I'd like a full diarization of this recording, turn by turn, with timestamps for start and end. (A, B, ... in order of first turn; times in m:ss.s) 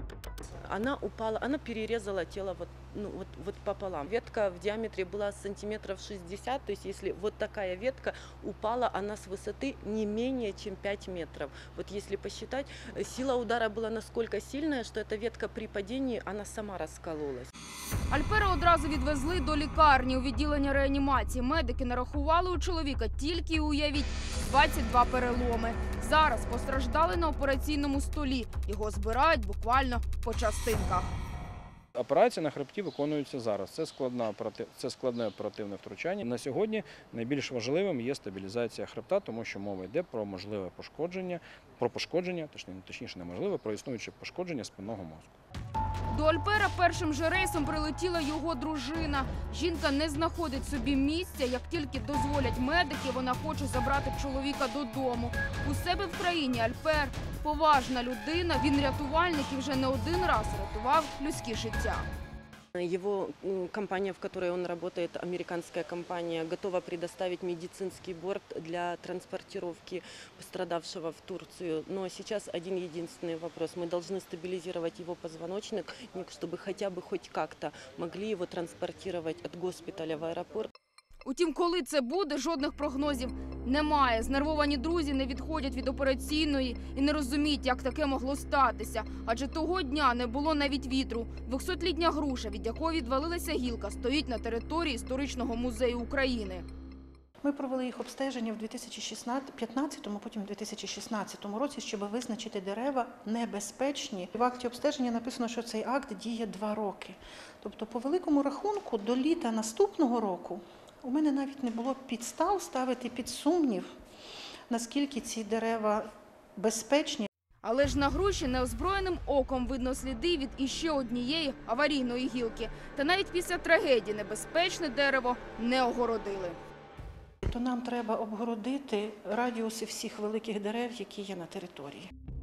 0:00.6-0:17.5 A
0:18.1-0:31.1 B
0:32.0-0:45.3 C
0:46.1-1:02.0 B
1:02.8-1:20.7 A
1:21.2-1:36.6 B
1:37.4-1:53.9 D
1:54.7-1:57.3 D
1:57.6-2:06.6 B
2:07.4-2:12.1 D